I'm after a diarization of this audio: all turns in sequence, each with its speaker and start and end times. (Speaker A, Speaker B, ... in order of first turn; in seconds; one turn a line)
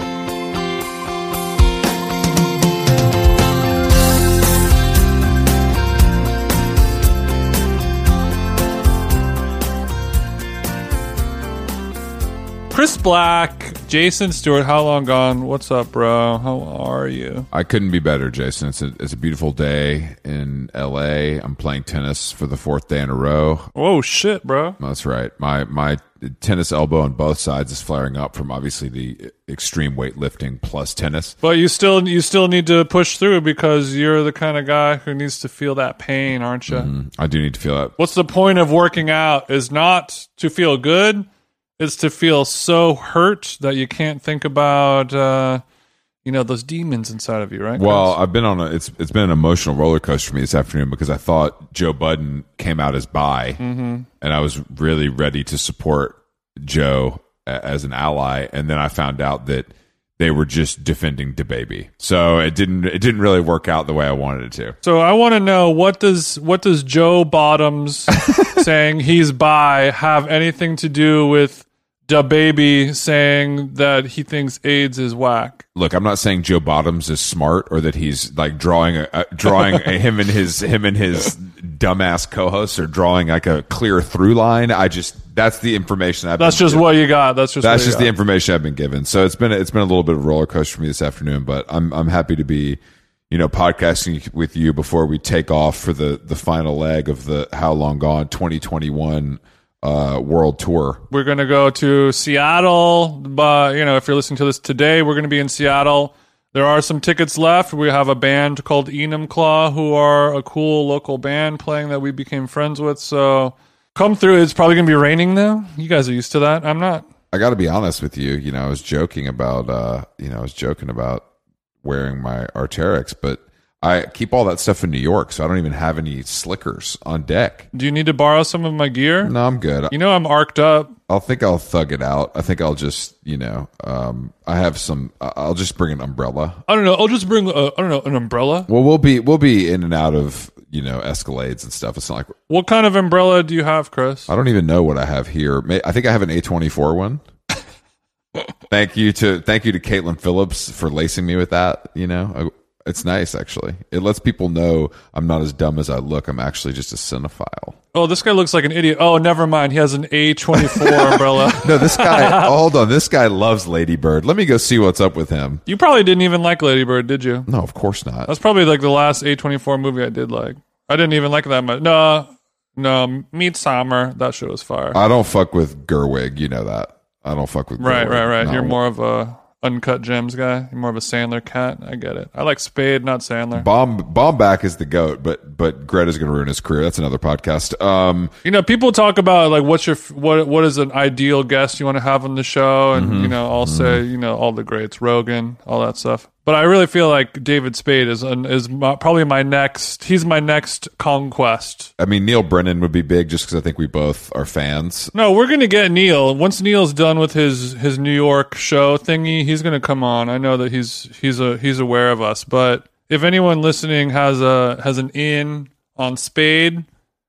Speaker A: 12.7-17.5
Speaker B: 17.5-23.7
Speaker A: 23.7-24.8
Speaker B: 24.8-31.3
Speaker A: 31.4-36.9
Speaker B: 36.7-37.9
Speaker A: 38.0-41.2
Speaker A: 41.8-45.6
Speaker A: 46.2-48.2
Speaker B: 47.8-53.6
Speaker A: 53.6-54.1
Speaker B: 54.2-64.8
Speaker A: 64.8-75.6
Speaker B: 75.8-86.8
Speaker A: 86.4-88.1
Speaker B: 87.6-101.0
Speaker A: 101.1-117.0
Speaker B: 117.3-121.2
Speaker B: 121.8-127.7
Speaker A: 127.7-129.3
Speaker B: 129.2-129.9
Speaker A: 129.9-130.9
Speaker B: 131.1-136.6
Speaker A: 136.7-138.7
Speaker B: 138.7-142.3
Speaker A: 142.5-144.3
Speaker B: 144.3-147.2
Speaker B: 148.7-157.8
Speaker A: 157.9-162.5
Speaker B: 160.6-165.6
Speaker A: 165.7-167.5
Speaker B: 167.5-168.3
Speaker A: 168.3-175.0
Speaker B: 174.9-178.8
Speaker A: 177.8-183.7
Speaker B: 183.5-188.3
Speaker A: 188.4-201.9
Speaker B: 192.9-194.0
Speaker B: 202.0-205.1
Speaker A: 205.1-216.8